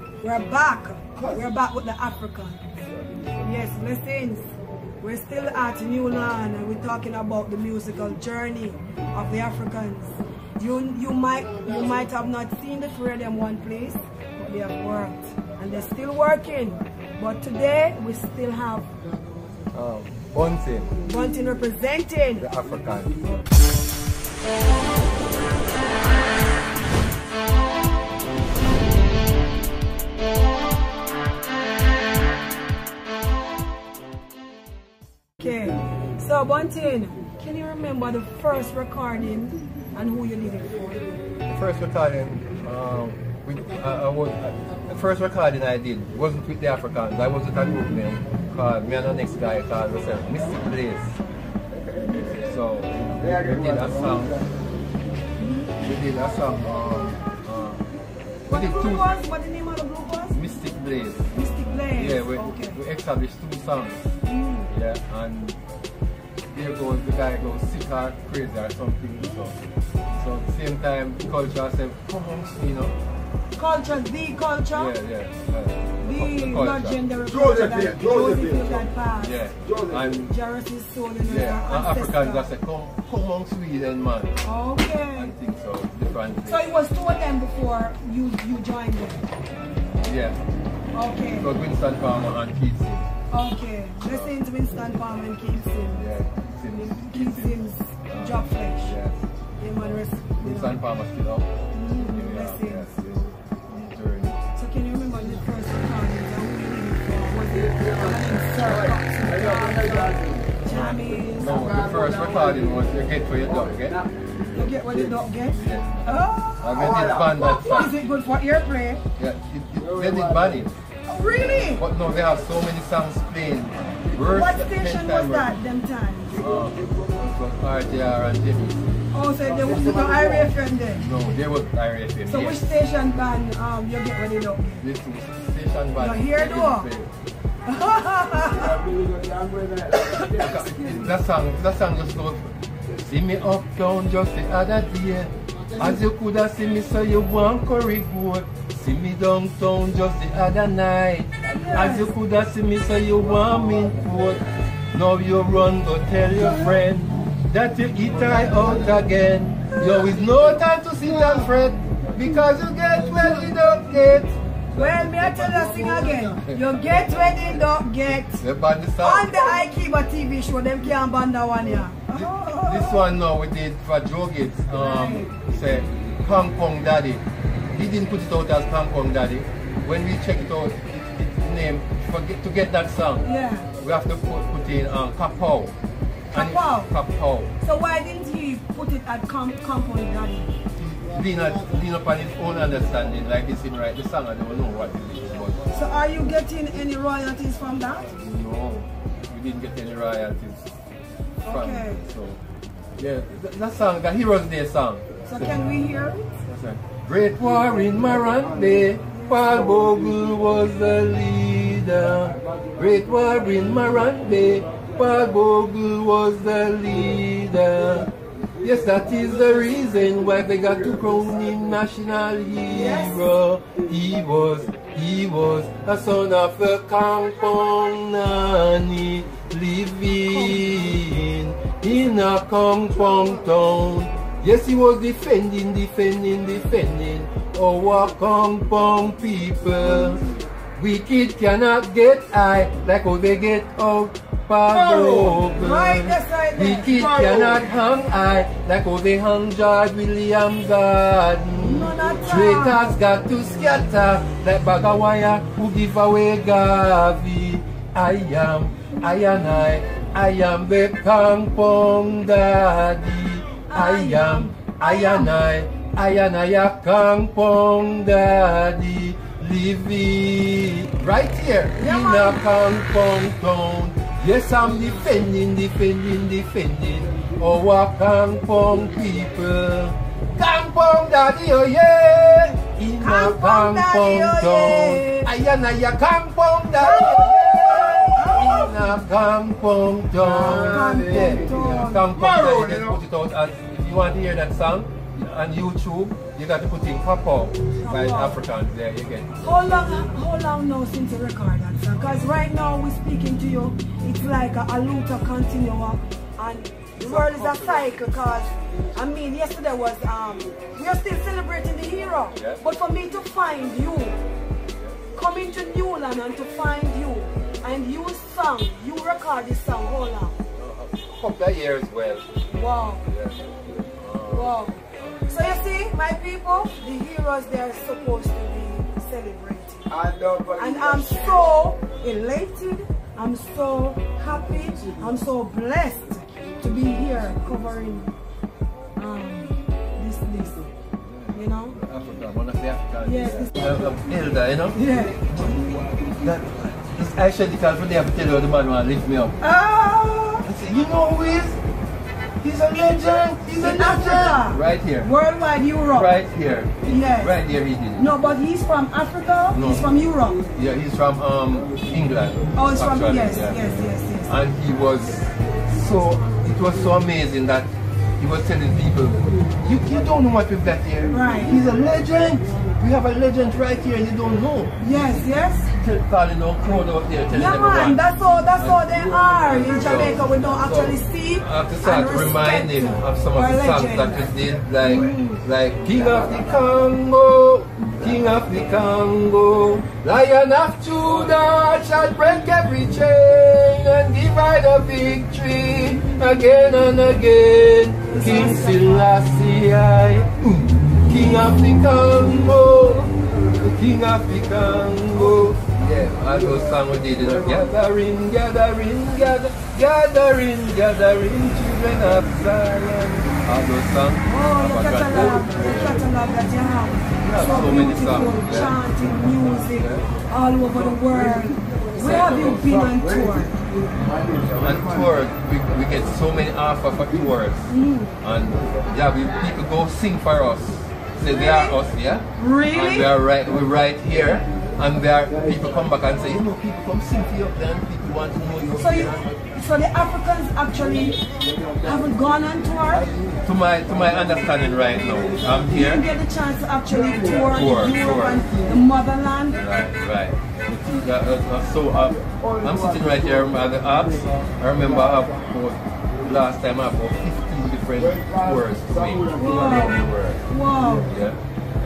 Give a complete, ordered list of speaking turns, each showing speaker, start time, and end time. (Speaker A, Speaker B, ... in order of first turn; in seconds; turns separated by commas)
Speaker A: 0.2-2.7, Speaker A: 3.4-18.9, Speaker B: 19.7-20.9, Speaker A: 21.0-22.4, Speaker B: 22.4-23.4, Speaker A: 35.4-41.1, Speaker B: 41.5-51.1, Speaker B: 52.1-54.4, Speaker C: 53.4-54.2, Speaker A: 55.4-55.7, Speaker B: 55.8-57.8, Speaker B: 58.5-59.1, Speaker A: 58.5-60.4, Speaker B: 60.3-61.2, Speaker A: 61.3-62.8, Speaker B: 61.9-64.0, Speaker A: 64.2-64.7, Speaker B: 64.7-65.6, Speaker B: 66.5-69.5, Speaker B: 70.1-73.0, Speaker A: 73.6-74.9, Speaker B: 74.7-77.0, Speaker A: 76.0-79.5, Speaker C: 77.4-78.7, Speaker B: 79.2-80.3, Speaker C: 79.7-79.9, Speaker A: 80.2-82.5, Speaker B: 81.2-84.4, Speaker A: 84.4-85.3, Speaker B: 85.1-86.7, Speaker A: 86.5-89.2, Speaker B: 90.0-90.4, Speaker A: 90.9-91.5, Speaker B: 91.3-93.0, Speaker A: 93.3-96.1, Speaker B: 94.0-94.3, Speaker B: 95.9-99.2, Speaker A: 96.7-98.9, Speaker A: 99.6-100.8, Speaker B: 100.4-104.4, Speaker A: 101.7-103.1, Speaker A: 104.5-111.7, Speaker C: 109.3-110.4, Speaker B: 110.7-114.0, Speaker C: 111.5-112.6, Speaker A: 114.5-119.0, Speaker B: 115.5-118.0, Speaker C: 116.8-117.3, Speaker B: 119.2-120.7, Speaker C: 119.9-120.5, Speaker A: 121.1-121.8, Speaker B: 121.7-125.5, Speaker A: 124.1-126.4, Speaker B: 126.3-128.9, Speaker A: 129.1-131.0, Speaker C: 129.6-130.4, Speaker B: 130.9-132.6, Speaker A: 132.2-134.8, Speaker B: 134.8-137.1, Speaker A: 136.0-136.9, Speaker A: 137.6-138.8, Speaker C: 138.5-140.5, Speaker A: 140.0-140.4, Speaker B: 140.3-165.3, Speaker A: 151.5-152.1, Speaker A: 164.7-168.4, Speaker B: 168.4-169.5, Speaker A: 169.0-173.0, Speaker B: 172.1-183.2, Speaker A: 174.7-175.3, Speaker A: 183.2-183.7, Speaker B: 183.8-185.7, Speaker B: 186.3-187.5, Speaker A: 186.3-186.9, Speaker A: 187.6-190.6, Speaker B: 190.8-195.6, Speaker A: 195.7-198.2, Speaker B: 198.2-200.7, Speaker A: 201.4-202.0, Speaker B: 201.4-202.4, Speaker B: 203.0-205.6, Speaker A: 205.2-206.4, Speaker B: 206.5-240.2, Speaker C: 207.9-208.2, Speaker A: 209.1-209.4, Speaker A: 222.7-223.3, Speaker A: 230.2-231.0, Speaker B: 240.8-299.6, Speaker A: 244.7-247.1, Speaker C: 247.2-247.5, Speaker A: 251.6-253.0, Speaker A: 263.7-265.3, Speaker A: 271.8-272.5, Speaker A: 283.0-285.3, Speaker A: 286.8-288.9, Speaker C: 290.4-292.9, Speaker A: 290.5-292.1, Speaker A: 297.8-298.4, Speaker A: 299.4-314.2, Speaker B: 307.0-307.9, Speaker B: 312.3-312.6, Speaker B: 314.7-315.0, Speaker A: 315.1-320.4, Speaker B: 320.6-322.2, Speaker A: 322.5-323.1, Speaker B: 323.1-323.4, Speaker B: 324.0-325.2, Speaker A: 324.3-330.0, Speaker C: 329.9-331.4, Speaker A: 330.6-338.1, Speaker A: 338.9-340.7, Speaker B: 341.0-349.4, Speaker A: 341.3-341.8, Speaker A: 343.0-343.9, Speaker A: 344.7-345.2, Speaker A: 349.4-350.5, Speaker B: 350.4-351.6, Speaker B: 352.4-355.1, Speaker A: 353.6-356.1, Speaker B: 355.9-358.1, Speaker A: 356.8-357.4, Speaker A: 357.9-360.4, Speaker B: 359.5-359.9, Speaker B: 360.5-374.9, Speaker A: 362.5-364.3, Speaker A: 371.1-371.5, Speaker A: 374.8-375.7, Speaker B: 375.7-378.0, Speaker A: 377.3-385.4, Speaker B: 378.6-416.0, Speaker A: 398.1-399.1, Speaker A: 414.2-423.5, Speaker B: 417.2-418.8, Speaker B: 419.7-420.1, Speaker B: 421.9-422.7, Speaker C: 422.6-425.0, Speaker B: 424.3-427.7, Speaker A: 427.7-428.2, Speaker B: 428.2-439.4, Speaker A: 431.2-431.8, Speaker A: 432.4-433.1, Speaker A: 438.8-441.2, Speaker C: 441.5-441.8, Speaker A: 441.8-443.1, Speaker B: 443.4-446.1, Speaker A: 445.7-449.6, Speaker B: 447.4-448.5, Speaker B: 449.5-460.4, Speaker C: 452.3-453.4, Speaker C: 458.1-459.7, Speaker A: 459.3-461.1, Speaker B: 461.0-461.4